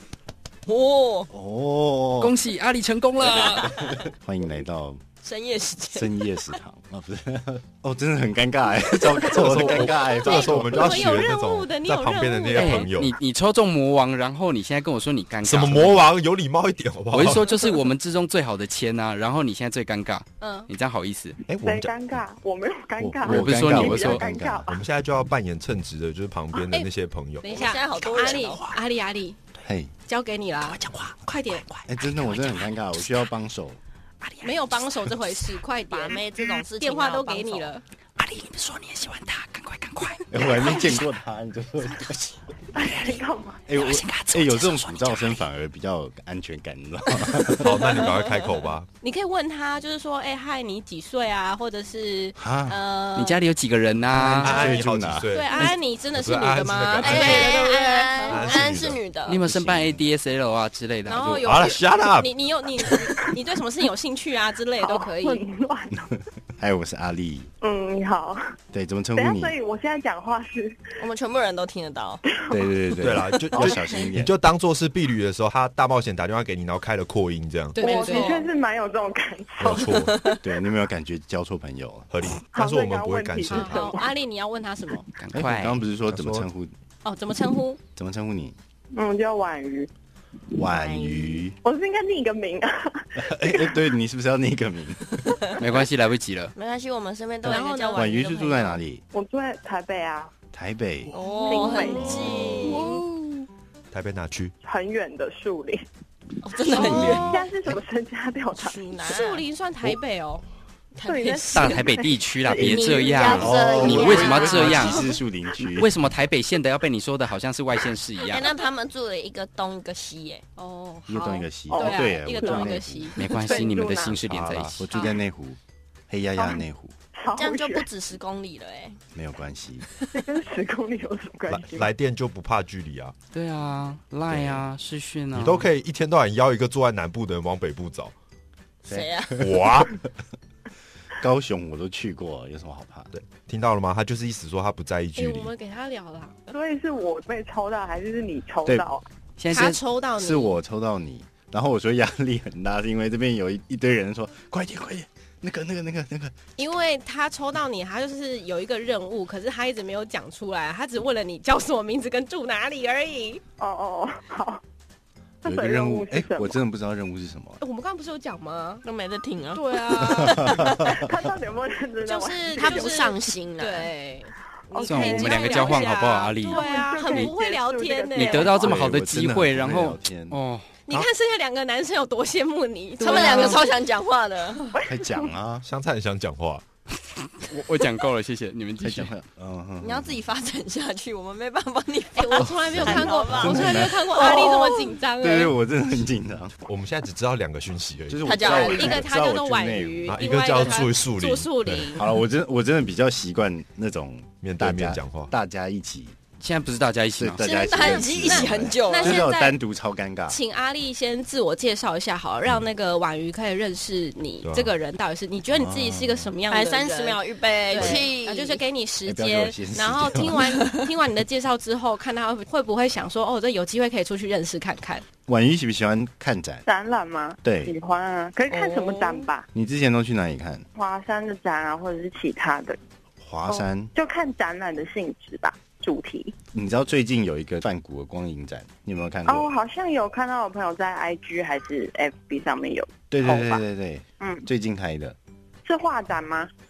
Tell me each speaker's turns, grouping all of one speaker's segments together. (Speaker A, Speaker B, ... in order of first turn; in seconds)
Speaker A: 0.7-1.3, 3.3-3.9, 5.2-6.3, 27.4-28.6, 35.9-37.7, 57.0-59.4, 71.0-72.2, 77.8-78.5, 79.7-80.4, 90.7-91.4, 96.5-98.8, 101.1-103.0, 106.4-107.4, 108.5-109.5, 111.0-111.9, 112.5-115.0, 118.2-120.4, 127.3-129.0, 138.9-139.3, 168.8-170.3, 172.5-173.9, 183.0-184.7, 189.8-194.9, 198.2-199.0, 207.4-209.2, 216.5-218.6, 228.5-229.3
Speaker B: 1.3-2.3, 3.4-5.0, 5.9-11.2, 23.0-24.6, 29.6-29.9, 31.9-33.8, 40.3-43.1, 43.7-47.9, 52.4-52.8, 54.1-55.3, 59.5-59.9, 65.9-67.5, 68.7-69.5, 72.5-74.3, 80.4-82.1, 85.3-86.7, 88.0-88.5, 90.6-91.6, 93.2-95.5, 97.9-99.0, 100.5-101.1, 101.8-102.8, 106.8-107.4, 113.3-115.9, 121.1-123.2, 124.8-125.6, 126.1-126.9, 129.1-129.8, 138.9-139.9, 141.2-143.1, 150.2-156.3, 165.4-167.6, 170.0-170.9, 178.5-180.4, 184.8-185.7, 188.8-190.2, 192.6-194.6, 195.2-196.6, 198.1-200.7, 201.9-206.2, 207.2-210.4, 215.5-216.3, 217.8-218.0, 219.1-220.8, 225.3-226.6, 227.4-227.7, 229.5-230.7, 233.2-233.9, 236.5-239.5, 243.1-245.2
Speaker C: 2.2-3.7, 12.6-16.1, 17.1-21.4, 23.2-24.2, 30.7-32.6, 34.2-34.8, 38.2-41.0, 43.8-45.4, 53.1-54.6, 59.3-61.5, 85.2-85.8, 95.6-96.5, 111.5-115.0, 115.8-118.5, 123.2-124.8, 133.3-135.7, 149.4-149.8, 174.8-176.6, 178.2-180.6, 187.4-189.1, 206.4-207.8
Speaker D: 9.3-13.1, 15.4-17.6, 21.5-21.9, 24.7-27.6, 47.5-48.9, 54.4-57.6, 58.3-59.0, 61.4-62.3, 73.0-77.8, 79.6-80.1, 82.1-83.9, 86.1-86.5, 103.9-104.5, 124.3-124.8, 131.5-133.1, 134.3-134.6, 135.3-138.1, 139.4-139.9, 143.1-145.5, 185.6-186.6, 196.7-198.3, 200.1-201.9, 204.4-205.3, 214.4-214.7
Speaker E: 10.1-12.9, 20.4-20.7, 27.4-29.4, 30.1-31.6, 34.4-36.2, 36.8-37.8, 49.0-53.4, 55.3-58.7, 61.0-65.4, 77.8-78.4, 83.5-85.1, 87.0-87.8, 97.4-98.1, 101.5-103.0, 106.7-107.3, 109.0-110.4, 114.0-115.2, 120.6-123.6, 145.2-146.3, 149.5-150.6, 156.6-163.4, 167.6-168.8, 169.5-170.9, 172.1-178.5, 180.9-183.7, 192.2-195.5, 198.4-202.1, 207.8-209.6, 210.3-225.0
Speaker F: 21.6-24.8, 42.7-43.6, 64.8-66.1, 67.6-68.4, 69.1-70.8, 72.2-73.0, 73.5-74.1, 77.8-80.4, 82.5-84.1, 88.9-89.9, 91.6-93.9, 99.1-100.3, 101.4-103.0, 104.6-105.8, 106.6-108.9, 111.0-113.2, 121.7-124.2, 127.2-127.9, 130.1-131.9, 146.5-149.0, 163.6-164.6, 165.4-166.6, 170.8-173.1, 174.7-175.9, 176.4-178.8, 184.7-185.3, 226.7-229.5, 230.7-232.8, 233.5-236.3, 239.2-243.6, 244.2-244.5, 245.6-246.5